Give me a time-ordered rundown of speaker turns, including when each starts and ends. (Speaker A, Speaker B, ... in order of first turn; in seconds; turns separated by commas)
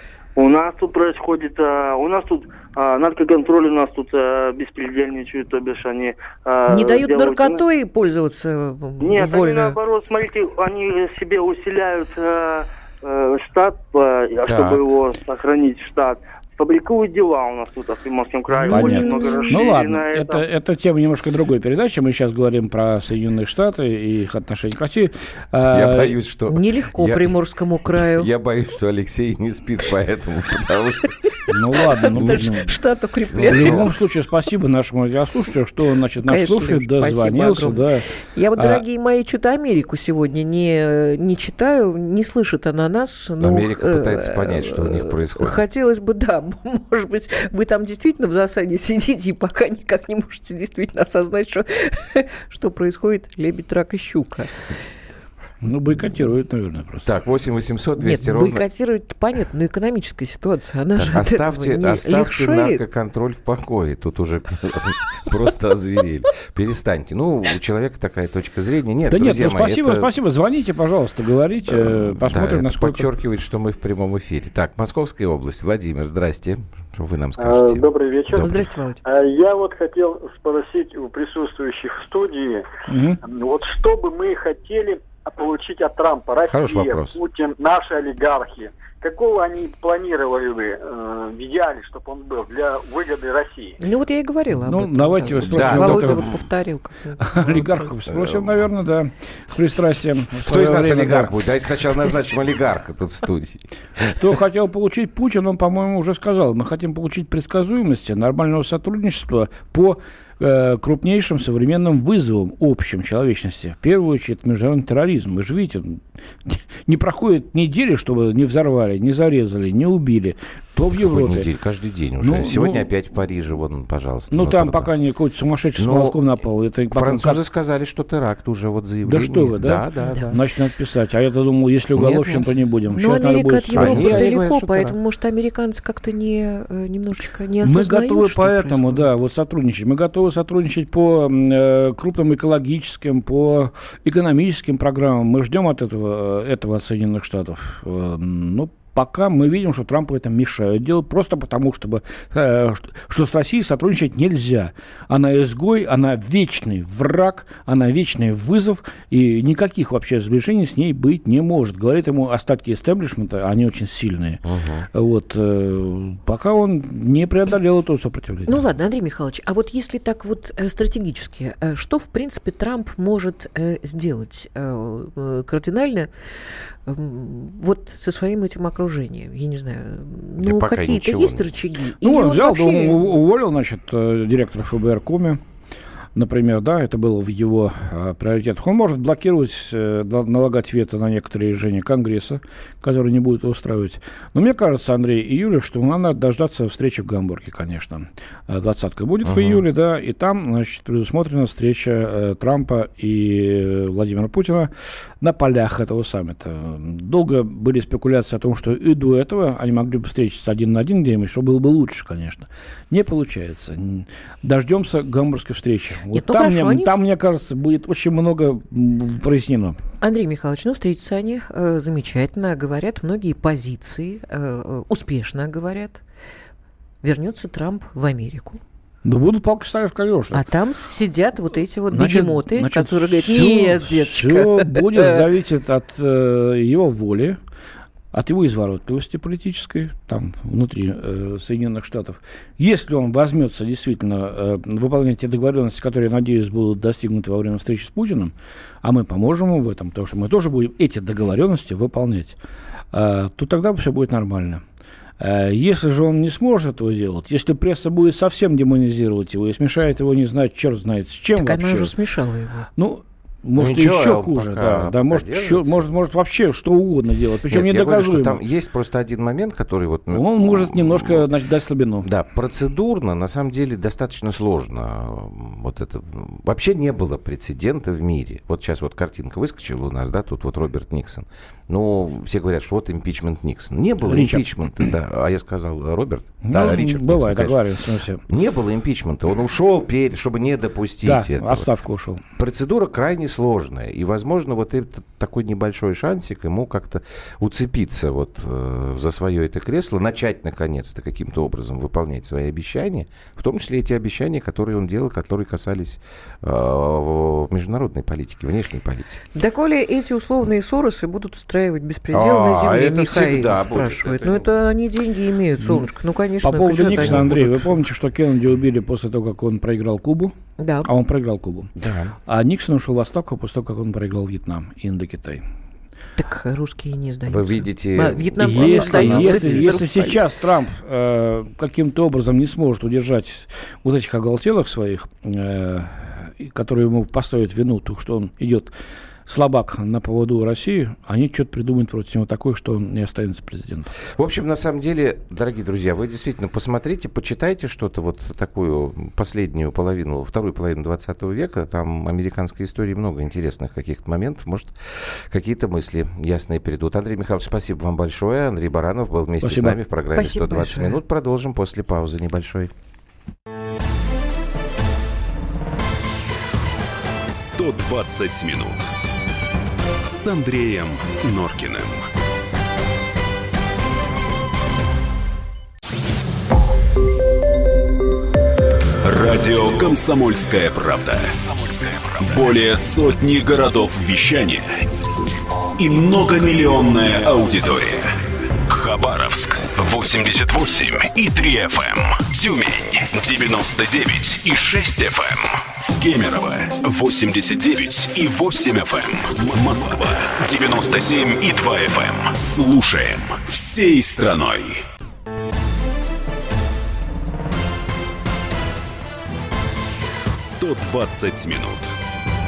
Speaker A: 0.4-7.6, Speaker B: 6.7-9.8, Speaker A: 9.0-20.4, Speaker C: 14.4-14.8, Speaker D: 18.7-26.1, Speaker B: 18.7-19.6, Speaker C: 25.7-27.4, Speaker B: 26.5-28.3, Speaker C: 28.0-31.2, Speaker D: 31.5-32.8, Speaker B: 32.0-33.9, Speaker C: 32.1-32.5, Speaker C: 33.3-33.9, Speaker D: 33.4-38.8, Speaker B: 36.2-54.5, Speaker C: 43.4-45.6, Speaker D: 55.6-57.1, Speaker C: 57.0-58.6, Speaker B: 58.0-62.8, Speaker C: 61.0-70.1, Speaker D: 69.1-73.1, Speaker C: 71.7-78.5, Speaker E: 77.4-82.7, Speaker B: 78.3-79.0, Speaker D: 82.9-83.2, Speaker E: 83.2-93.8, Speaker C: 86.5-87.2, Speaker B: 93.8-97.9, Speaker D: 94.5-96.4, Speaker C: 95.5-96.3, Speaker D: 97.2-101.4, Speaker C: 98.1-98.5, Speaker C: 100.4-104.2, Speaker D: 104.0-121.5, Speaker C: 120.9-124.9, Speaker D: 122.2-122.9, Speaker D: 124.3-127.4, Speaker C: 125.8-126.2, Speaker C: 126.9-130.2, Speaker D: 129.0-134.3, Speaker B: 130.0-130.4, Speaker C: 131.9-132.4, Speaker B: 132.9-139.1, Speaker C: 133.7-135.0, Speaker D: 137.6-164.4, Speaker C: 164.4-164.9, Speaker D: 164.9-168.6, Speaker B: 168.5-176.1, Speaker B: 176.9-183.1, Speaker C: 180.4-181.6, Speaker D: 182.0-185.4, Speaker D: 186.2-219.8, Speaker C: 199.2-199.6, Speaker B: 216.1-217.0, Speaker B: 220.0-226.0, Speaker B: 227.0-228.6, Speaker D: 229.0-230.5, Speaker B: 230.3-235.2, Speaker D: 231.9-237.4, Speaker D: 238.1-252.4, Speaker D: 252.9-254.6, Speaker D: 255.2-261.9, Speaker B: 261.4-262.7, Speaker D: 262.8-268.4, Speaker C: 263.6-265.8, Speaker C: 267.5-271.2, Speaker D: 270.1-272.1, Speaker C: 272.0-287.6, Speaker D: 284.0-284.9, Speaker D: 286.5-288.2, Speaker C: 288.3-291.7, Speaker D: 291.0-292.2, Speaker C: 292.4-309.2, Speaker B: 309.4-317.6, Speaker C: 312.1-314.5, Speaker D: 315.6-315.9, Speaker D: 316.4-321.7, Speaker C: 316.8-317.4, Speaker B: 320.6-320.9, Speaker C: 321.8-322.2, Speaker D: 322.3-325.4, Speaker B: 326.2-329.9, Speaker C: 327.3-330.2, Speaker D: 328.4-338.7, Speaker D: 339.3-343.9, Speaker C: 344.1-362.7, Speaker D: 359.4-359.8, Speaker B: 360.1-361.0, Speaker F: 367.3-368.9, Speaker F: 370.0-372.1, Speaker F: 379.0-384.9, Speaker F: 385.8-404.8, Speaker F: 410.3-412.0